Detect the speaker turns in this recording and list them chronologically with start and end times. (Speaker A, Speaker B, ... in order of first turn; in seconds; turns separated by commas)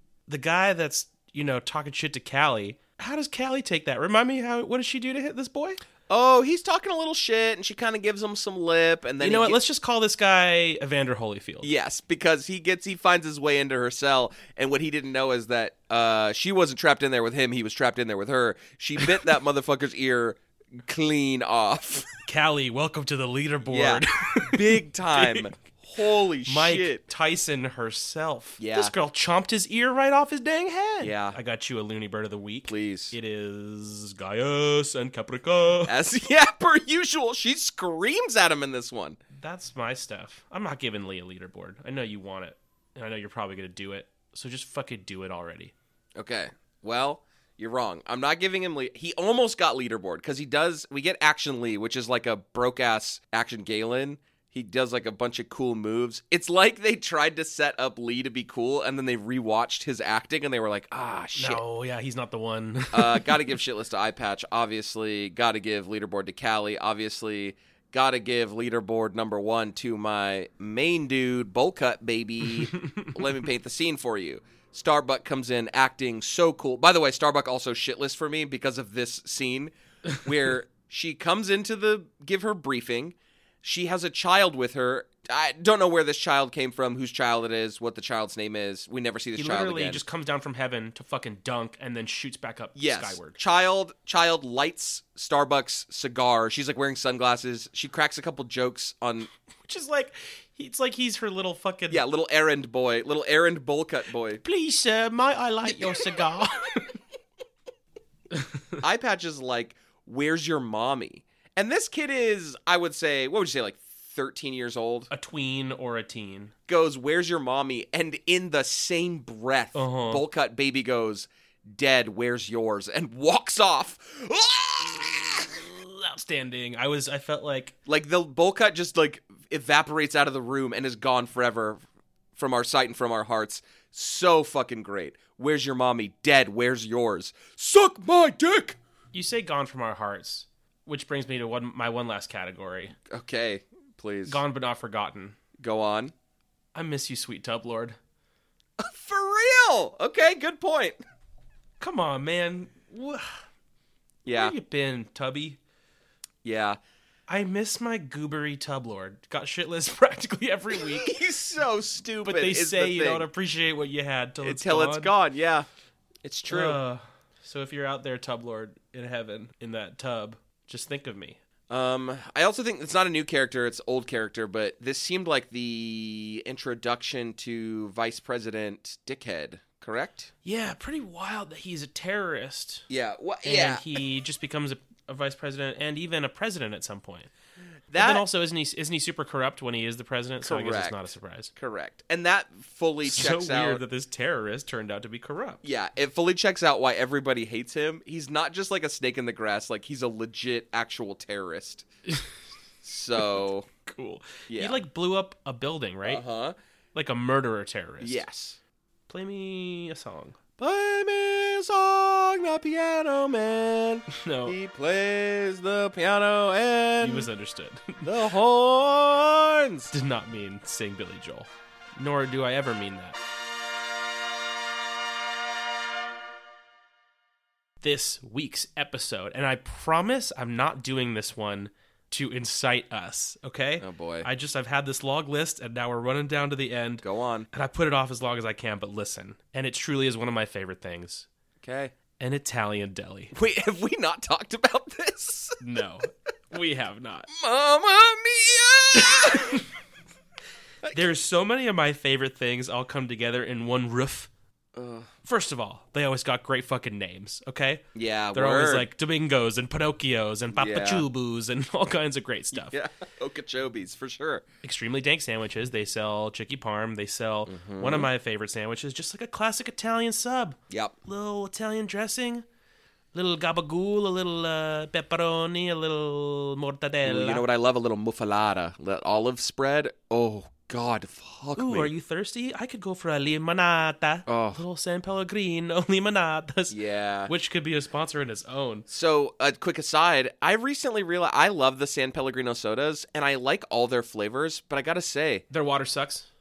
Speaker A: 0.3-5.8, Speaker B: 6.1-9.6, Speaker A: 9.2-11.7, Speaker B: 11.6-22.1, Speaker A: 22.3-25.5, Speaker B: 23.7-27.0, Speaker A: 26.5-36.0, Speaker B: 28.6-28.9, Speaker B: 31.0-31.4, Speaker B: 32.7-33.2, Speaker B: 35.9-39.2, Speaker A: 39.3-45.7, Speaker B: 46.2-61.6, Speaker A: 61.4-63.5, Speaker B: 62.9-90.0, Speaker A: 72.6-73.4, Speaker A: 89.4-93.4, Speaker B: 92.8-99.3, Speaker A: 99.7-102.0, Speaker B: 101.9-104.4, Speaker A: 104.4-106.9, Speaker B: 105.7-106.2, Speaker A: 108.3-108.8, Speaker B: 108.8-115.1, Speaker A: 115.1-116.5, Speaker B: 116.7-125.7, Speaker A: 119.8-120.2, Speaker A: 125.5-127.8, Speaker B: 127.9-131.8, Speaker B: 132.3-138.8, Speaker A: 139.1-142.9, Speaker B: 143.1-144.4, Speaker A: 144.3-145.4, Speaker B: 145.6-146.1, Speaker A: 146.8-148.0, Speaker B: 148.8-151.0, Speaker A: 151.8-153.2, Speaker B: 154.2-154.6, Speaker A: 154.3-155.6, Speaker B: 156.4-156.8, Speaker A: 157.3-161.2, Speaker B: 160.7-163.3, Speaker A: 162.3-165.1, Speaker B: 164.4-165.7, Speaker B: 166.2-166.8, Speaker A: 166.5-171.4, Speaker B: 171.7-180.3, Speaker A: 180.4-182.9, Speaker B: 182.9-184.0, Speaker A: 183.4-187.3, Speaker B: 187.9-188.2, Speaker A: 188.0-191.5, Speaker B: 190.4-193.8, Speaker A: 193.0-195.6, Speaker B: 195.6-201.9, Speaker B: 202.8-203.7, Speaker A: 203.2-206.2, Speaker B: 204.5-204.8, Speaker B: 206.1-206.6, Speaker A: 206.9-208.2, Speaker B: 208.0-208.6, Speaker A: 209.1-210.4, Speaker B: 210.6-217.3, Speaker A: 214.1-214.6, Speaker A: 217.0-218.1, Speaker B: 218.0-219.9, Speaker A: 219.9-223.2, Speaker A: 227.8-241.3, Speaker B: 233.8-234.3, Speaker B: 237.0-237.5, Speaker B: 241.6-241.9, Speaker A: 242.2-243.3, Speaker B: 243.3-245.6, Speaker A: 245.6-247.3, Speaker B: 247.3-249.6, Speaker A: 248.9-249.7, Speaker A: 250.9-254.3, Speaker B: 254.8-255.1, Speaker A: 255.2-262.8, Speaker B: 257.9-258.9, Speaker B: 260.5-261.1, Speaker B: 262.5-264.4, Speaker A: 264.6-272.4, Speaker B: 267.5-268.1, Speaker B: 270.7-271.0, Speaker A: 273.1-277.4, Speaker B: 277.0-281.9, Speaker A: 281.6-286.8, Speaker B: 284.3-284.6, Speaker B: 286.7-287.3, Speaker A: 287.3-288.9, Speaker B: 288.9-295.4, Speaker A: 295.5-296.3